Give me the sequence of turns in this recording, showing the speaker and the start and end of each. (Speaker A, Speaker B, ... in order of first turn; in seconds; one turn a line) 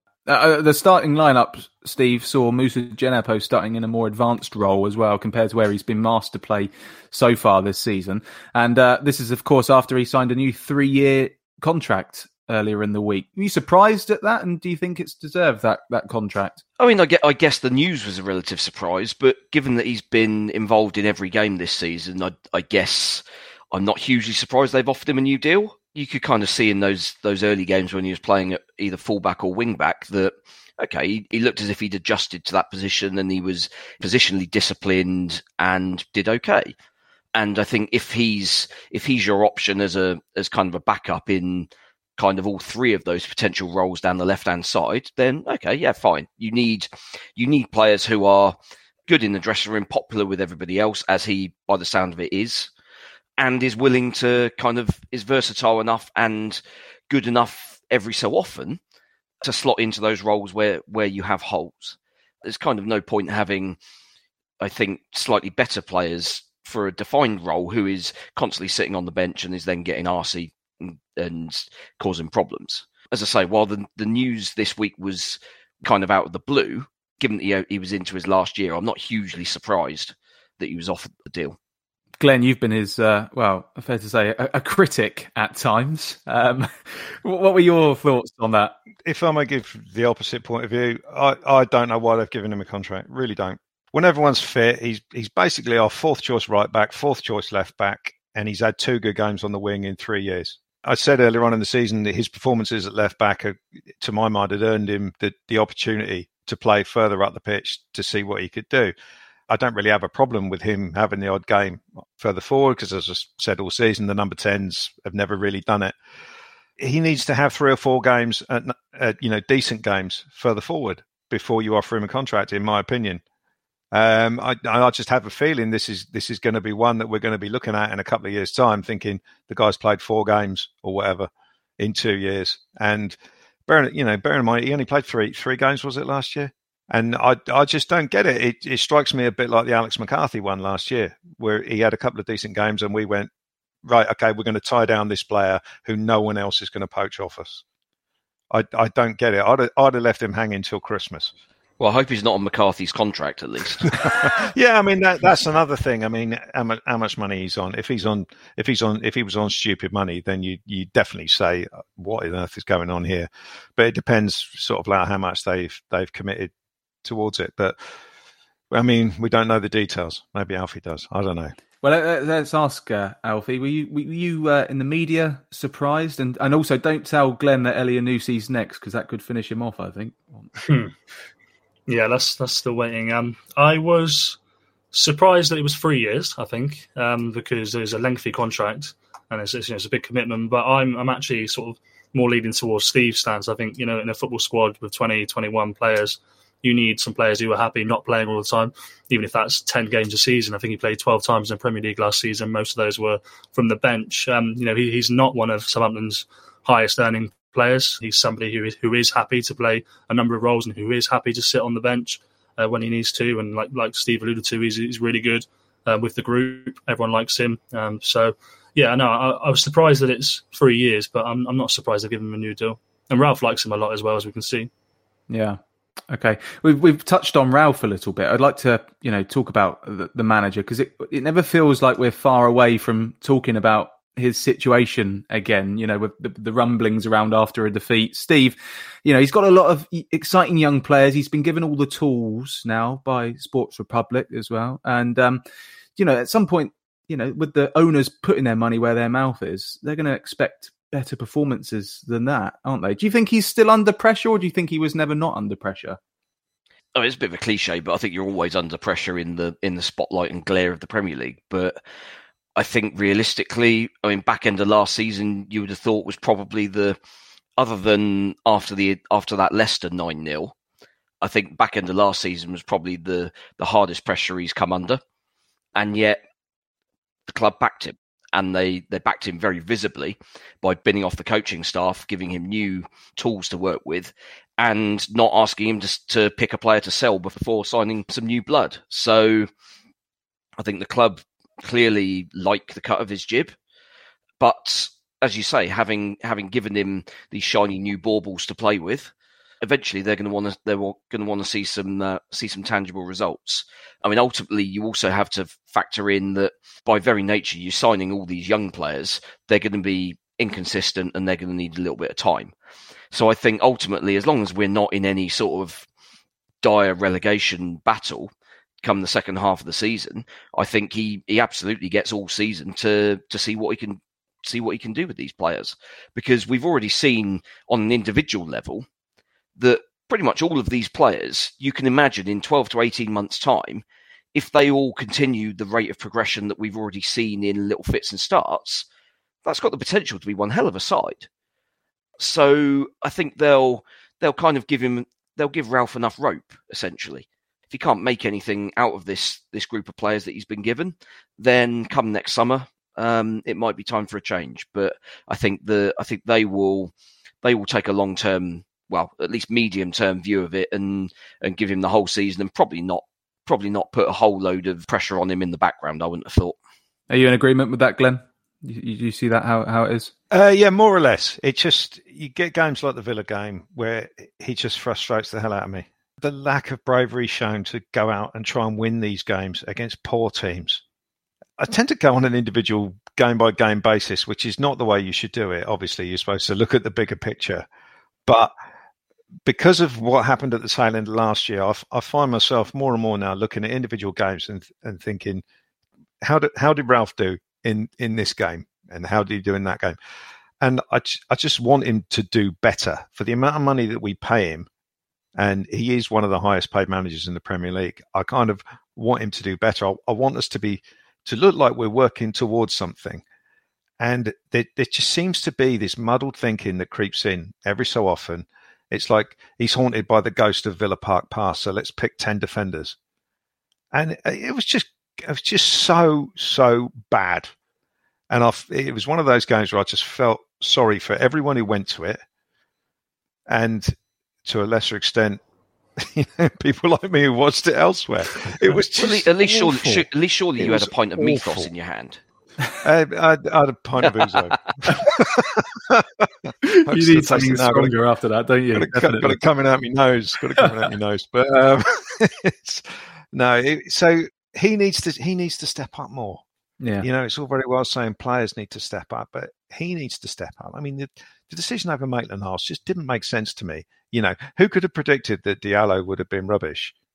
Speaker A: 0.3-16.6
Speaker B: 16.8-36.7
Speaker B: 37.4-52.7
Speaker B: 53.4-58.8
Speaker B: 59.4-63.8
Speaker B: 64.6-81.6
Speaker A: 82.2-88.8
Speaker C: 89.0-108.9
Speaker C: 109.5-116.0
Speaker C: 116.8-123.2
Speaker C: 123.9-143.3
Speaker C: 143.8-147.6
Speaker C: 148.5-151.3
Speaker B: 151.8-154.3
Speaker C: 153.8-166.5
Speaker C: 167.0-167.8
Speaker C: 168.7-171.5
Speaker A: 171.8-180.5
Speaker D: 180.6-180.9
Speaker D: 181.9-184.4
Speaker D: 184.9-224.7
Speaker A: 225.3-225.6
Speaker A: 226.1-245.4
Speaker A: 246.0-256.0
Speaker B: 256.9-261.8
Speaker B: 262.6-267.0
Speaker B: 267.6-270.5
Speaker B: 271.2-275.0
Speaker B: 275.8-276.2
Speaker B: 277.3-289.5
Speaker B: 290.6-293.6
Speaker B: 294.4-312.5
Speaker B: 313.1-315.9
Speaker B: 316.6-318.3
Speaker B: 318.8-328.9
Speaker B: 329.6-338.9
Speaker B: 339.4-341.3
Speaker B: 342.2-356.9
Speaker B: 357.4-366.6
Speaker A: 367.1-370.1
Speaker C: 370.3-380.8
Speaker C: 381.6-387.7
Speaker C: 388.3-388.5
Speaker C: 389.4-395.4
Speaker C: 396.2-400.0
Speaker C: 400.6-404.7
Speaker C: 405.4-413.2
Speaker C: 414.0-423.0
Speaker C: 423.9-427.5
Speaker C: 428.3-432.2
Speaker C: 433.5-435.4
Speaker C: 436.0-441.7
Speaker B: 439.0-442.2
Speaker C: 442.8-447.9
Speaker B: 444.0-444.5
Speaker A: 446.6-449.4
Speaker C: 448.7-456.4
Speaker A: 456.8-457.1
Speaker C: 457.0-466.9